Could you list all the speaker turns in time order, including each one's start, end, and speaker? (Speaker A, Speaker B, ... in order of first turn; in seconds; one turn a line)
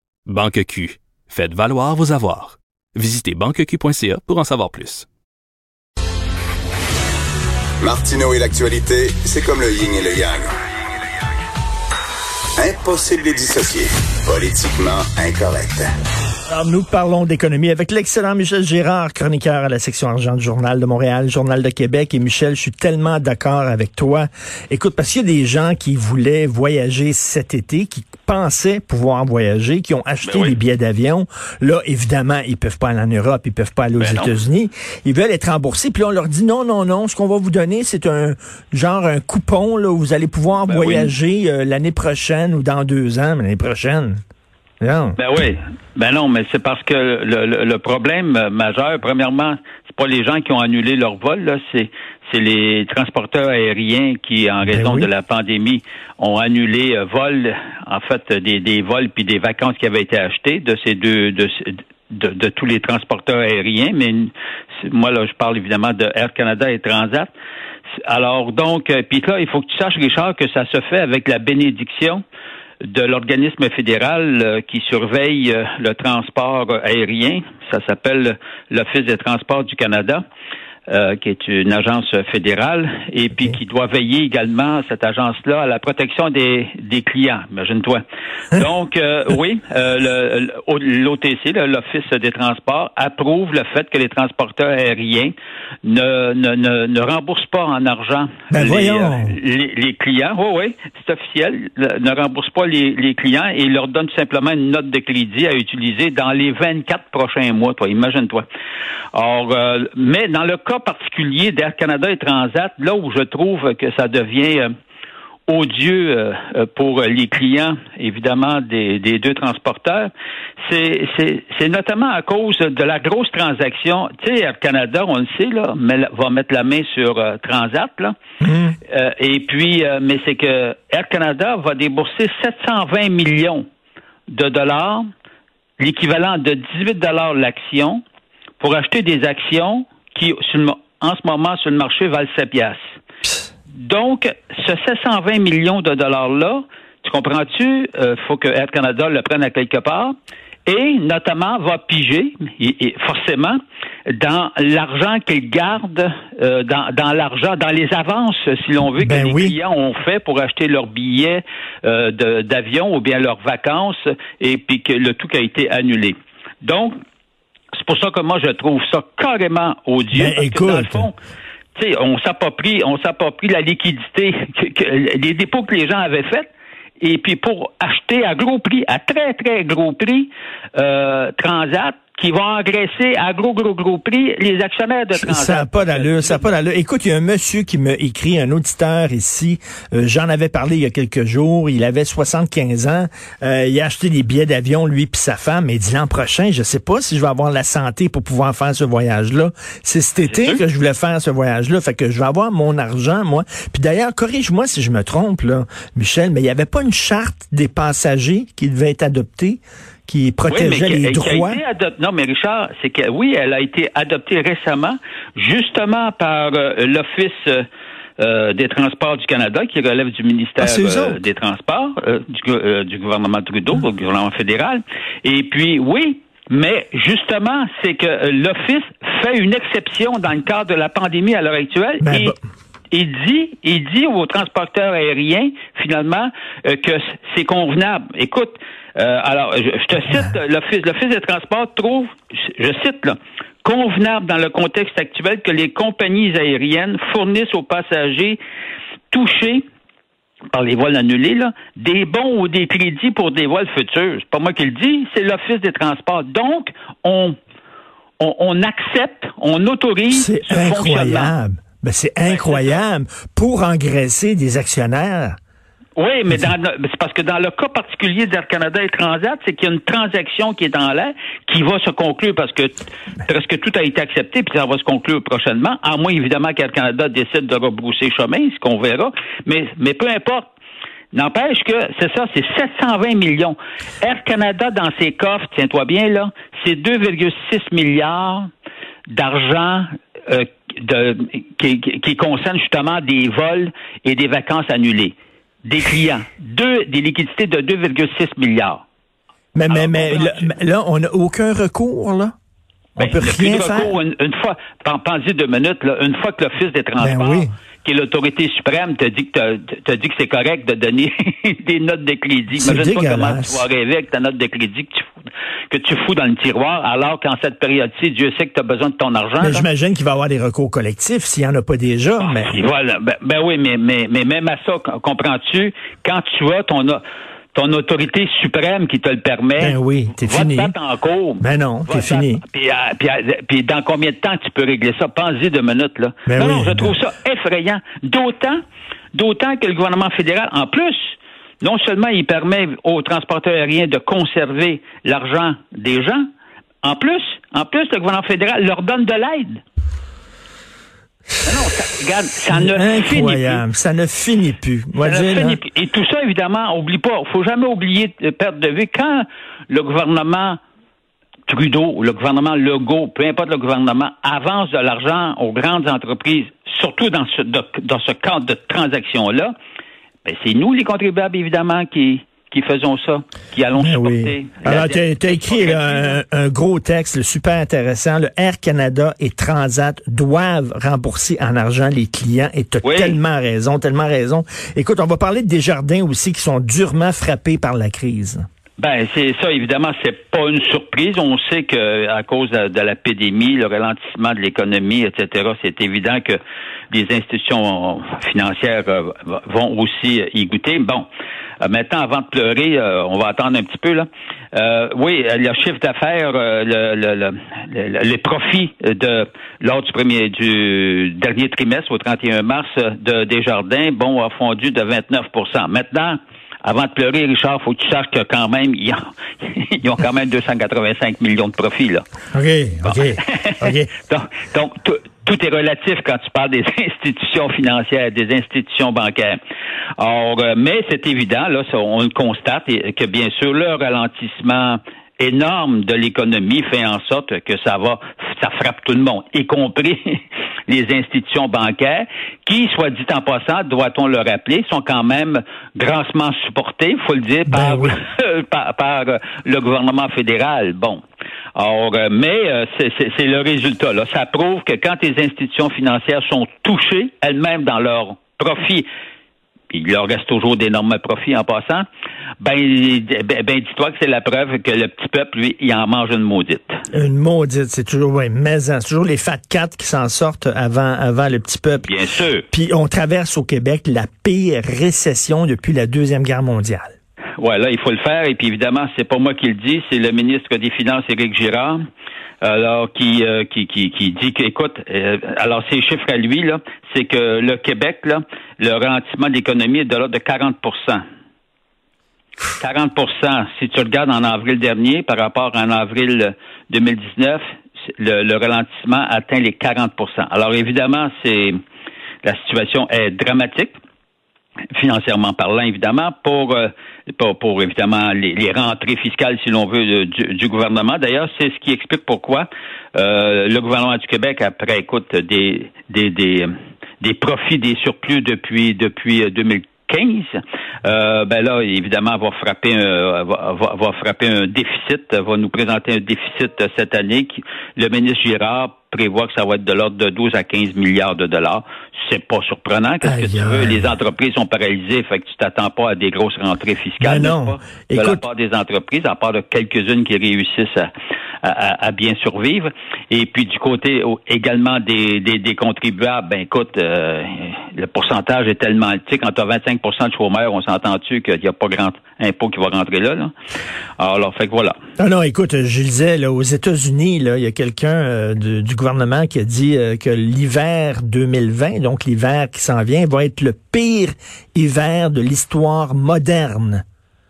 Speaker A: 0.3-5.1
Speaker B: 7.8-10.5
Speaker B: 12.6-15.9
Speaker C: 16.5-44.2
Speaker D: 30.2-30.6
Speaker D: 34.0-34.4
Speaker D: 40.7-41.1
Speaker C: 44.8-45.2
Speaker D: 45.2-64.3
Speaker C: 54.7-55.1
Speaker D: 64.8-67.3
Speaker D: 68.0-72.2
Speaker D: 72.8-80.2
Speaker D: 80.9-95.3
Speaker D: 95.8-108.5
Speaker C: 98.5-99.4
Speaker D: 109.1-114.7
Speaker D: 115.5-120.1
Speaker D: 120.6-128.2
Speaker C: 128.4-128.8
Speaker D: 128.9-133.6
Speaker D: 134.3-135.0
Speaker D: 135.8-138.0
Speaker D: 138.6-142.9
Speaker D: 143.7-150.1
Speaker D: 150.7-153.6
Speaker D: 154.1-166.9
Speaker C: 159.0-159.6
Speaker D: 167.7-171.2
Speaker C: 170.1-171.1
Speaker D: 171.7-186.6
Speaker C: 185.2-211.6
Speaker D: 200.2-200.6
Speaker D: 210.5-217.7
Speaker D: 218.2-232.4
Speaker C: 220.6-221.2
Speaker C: 232.0-232.4
Speaker D: 232.9-248.4
Speaker D: 249.1-249.6
Speaker D: 250.5-257.4
Speaker D: 258.2-261.4
Speaker C: 260.1-265.4
Speaker D: 262.2-262.8
Speaker D: 266.0-280.5
Speaker D: 281.1-288.5
Speaker D: 289.1-295.1
Speaker D: 295.6-298.8
Speaker C: 299.5-302.3
Speaker D: 299.7-300.5
Speaker C: 303.0-303.9
Speaker D: 303.0-315.1
Speaker C: 307.0-307.5
Speaker C: 312.5-313.6
Speaker D: 315.7-319.7
Speaker C: 319.4-322.6
Speaker D: 322.2-327.0
Speaker D: 327.5-338.6
Speaker C: 329.6-330.7
Speaker C: 331.4-332.4
Speaker C: 336.3-337.0
Speaker D: 339.1-346.2
Speaker D: 346.8-349.6
Speaker D: 351.4-353.6
Speaker C: 352.5-355.6
Speaker D: 355.0-360.6
Speaker D: 361.5-369.5
Speaker D: 370.2-376.2
Speaker C: 373.8-388.4
Speaker D: 382.8-383.2
Speaker D: 388.8-396.4
Speaker D: 396.9-401.1
Speaker D: 401.6-422.1
Speaker C: 422.3-423.9
Speaker D: 422.8-429.4
Speaker D: 430.0-451.0
Speaker C: 447.5-448.0
Speaker D: 451.6-458.9
Speaker D: 459.7-461.9
Speaker D: 462.4-466.8
Speaker C: 466.9-472.0
Speaker D: 471.9-472.4
Speaker C: 472.5-476.9
Speaker D: 477.4-481.8
Speaker D: 482.4-491.0
Speaker D: 492.6-497.4
Speaker D: 498.0-501.6
Speaker D: 502.2-503.7
Speaker D: 504.7-540.9
Speaker C: 533.0-533.9
Speaker C: 537.0-538.2
Speaker D: 541.4-553.3
Speaker D: 554.0-554.8
Speaker C: 555.0-566.8